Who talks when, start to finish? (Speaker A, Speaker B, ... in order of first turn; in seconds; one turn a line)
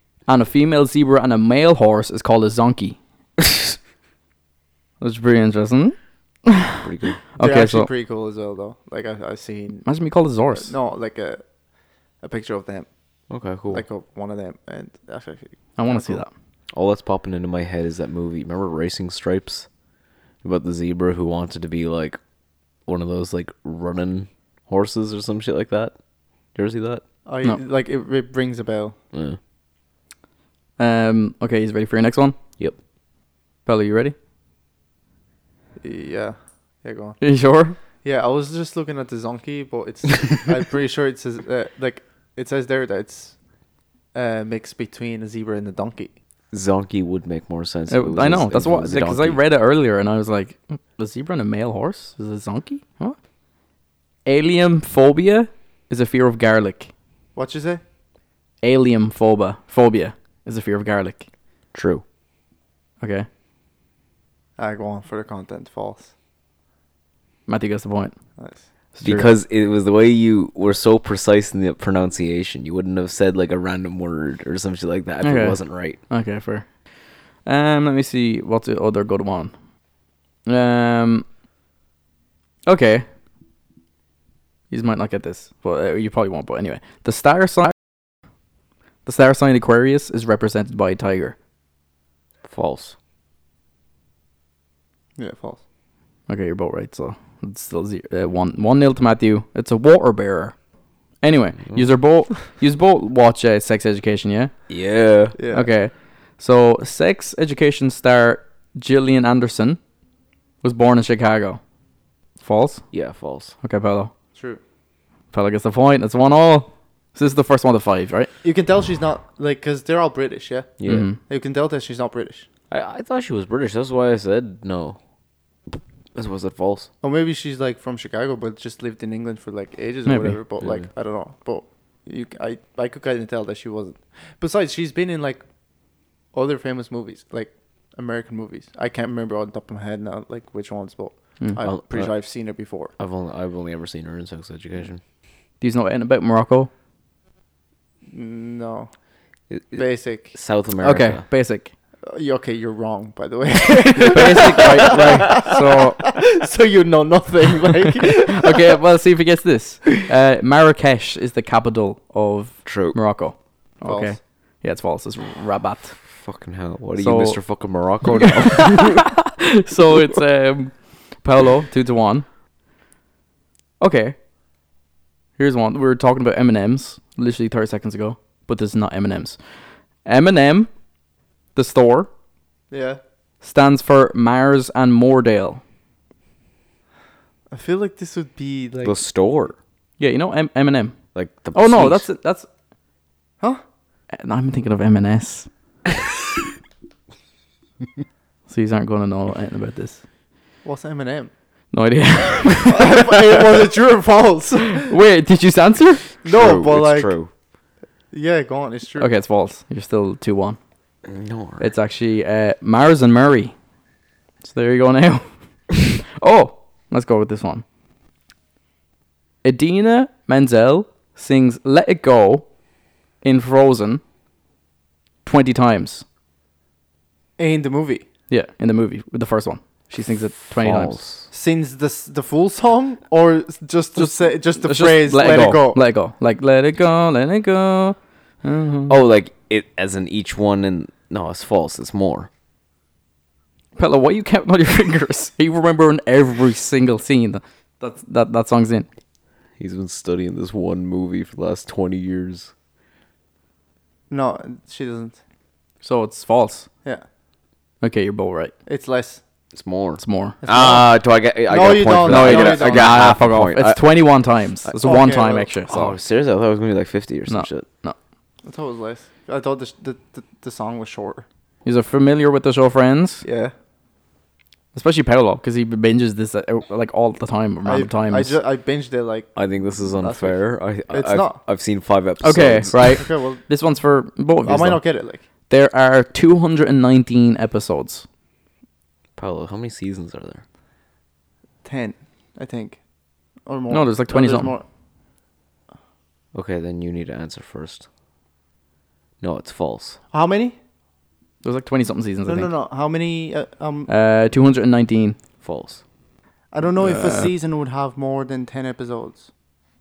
Speaker A: 0.3-3.0
Speaker A: 5.0-6.8
Speaker B: 6.8-7.2
Speaker A: 7.3-7.9
Speaker C: 7.4-9.8
Speaker A: 9.8-10.7
Speaker C: 10.5-11.4
Speaker C: 12.2-12.9
Speaker B: 13.3-13.8
Speaker C: 13.7-16.2
Speaker A: 15.8-16.3
Speaker B: 16.7-19.7
Speaker B: 20.4-22.2
Speaker B: 22.9-25.9
Speaker B: 26.5-27.0
Speaker C: 27.2-28.9
Speaker B: 29.1-29.4
Speaker A: 30.8-32.4
Speaker A: 33.6-34.1
Speaker C: 35.8-37.2
Speaker A: 37.2-37.8
Speaker C: 38.0-43.4
Speaker C: 44.1-46.1
Speaker B: 46.5-49.4
Speaker A: 47.9-53.2
Speaker A: 54.2-56.9
Speaker C: 57.3-57.8
Speaker A: 58.6-61.3
Speaker B: 61.7-62.0
Speaker A: 63.0-63.3
Speaker C: 64.6-66.1
Speaker A: 67.5-68.1
Speaker C: 68.4-68.6
Speaker A: 68.9-69.3
Speaker B: 69.0-76.0
Speaker A: 75.2-76.7
Speaker A: 77.4-79.5
Speaker A: 80.5-81.2
Speaker A: 82.7-83.1
Speaker A: 84.7-87.9
Speaker A: 89.0-91.3
Speaker B: 92.5-92.9
Speaker C: 95.2-95.6
Speaker A: 96.3-100.6
Speaker A: 101.2-104.5
Speaker B: 104.7-105.4
Speaker C: 105.3-105.7
Speaker A: 105.5-109.8
Speaker A: 110.6-111.6
Speaker A: 112.4-112.8
Speaker B: 112.9-113.5
Speaker A: 113.6-114.1
Speaker C: 114.3-114.6
Speaker A: 115.3-118.3
Speaker C: 118.4-122.5
Speaker B: 120.8-121.1
Speaker A: 120.9-121.2
Speaker B: 122.7-125.0
Speaker B: 126.1-126.9
Speaker C: 127.0-135.4
Speaker A: 130.1-130.4
Speaker B: 130.6-130.8
Speaker C: 136.3-142.9
Speaker B: 141.6-142.1
Speaker B: 143.0-145.0
Speaker A: 145.6-146.7
Speaker C: 148.1-148.9
Speaker B: 149.5-151.2
Speaker C: 149.8-150.3
Speaker A: 150.8-151.7
Speaker C: 152.1-158.8
Speaker A: 153.9-156.1
Speaker B: 154.1-155.4
Speaker A: 158.0-166.0
Speaker B: 162.6-163.0
Speaker C: 163.8-164.2
Speaker B: 166.1-169.1
Speaker A: 167.0-167.4
Speaker A: 168.2-172.2
Speaker A: 173.8-174.2
Speaker A: 175.4-179.4
Speaker A: 180.0-180.7
Speaker A: 181.5-182.1
Speaker C: 182.7-183.0
Speaker A: 183.4-185.6
Speaker C: 187.5-188.9
Speaker B: 188.8-189.6
Speaker A: 190.0-191.0
Speaker B: 191.1-192.0
Speaker A: 191.5-192.5
Speaker A: 194.1-195.5
Speaker A: 198.5-200.0
Speaker C: 200.6-201.3
Speaker A: 201.7-203.7
Speaker C: 202.7-204.9
Speaker A: 204.7-206.1
Speaker C: 206.2-207.1
Speaker B: 206.2-207.3
Speaker C: 208.1-209.1
Speaker A: 209.0-210.6
Speaker B: 211.0-211.7
Speaker A: 211.6-213.5
Speaker A: 214.4-217.6
Speaker A: 219.4-222.5
Speaker A: 223.2-224.0
Speaker A: 225.2-226.0
Speaker C: 227.4-228.1
Speaker A: 228.3-230.9
Speaker B: 230.6-231.3
Speaker C: 231.3-235.8
Speaker A: 234.0-238.9
Speaker B: 238.9-242.3
Speaker A: 243.8-248.9
Speaker B: 249.6-252.5
Speaker C: 254.1-255.2
Speaker A: 255.8-256.7
Speaker A: 257.8-258.5
Speaker C: 258.6-259.2
Speaker B: 259.5-263.9
Speaker A: 260.0-260.4
Speaker C: 260.4-260.9
Speaker C: 261.5-263.0
Speaker A: 262.1-266.0
Speaker C: 264.8-265.5
Speaker B: 265.7-267.6
Speaker A: 267.3-268.0
Speaker C: 268.4-271.2
Speaker A: 271.6-273.2
Speaker C: 273.2-273.5
Speaker A: 274.7-278.4
Speaker C: 277.6-281.4
Speaker B: 279.4-283.0
Speaker A: 282.2-284.8
Speaker C: 282.9-283.4
Speaker C: 284.4-285.2
Speaker A: 285.5-288.1
Speaker B: 289.1-290.4
Speaker C: 291.6-292.8
Speaker C: 293.4-294.6
Speaker A: 293.7-294.5
Speaker B: 296.3-297.9
Speaker B: 299.2-300.0
Speaker C: 300.1-300.6
Speaker A: 301.4-302.5
Speaker C: 302.2-303.9
Speaker A: 303.9-305.2
Speaker B: 305.4-305.8
Speaker C: 306.5-309.3
Speaker A: 306.8-307.3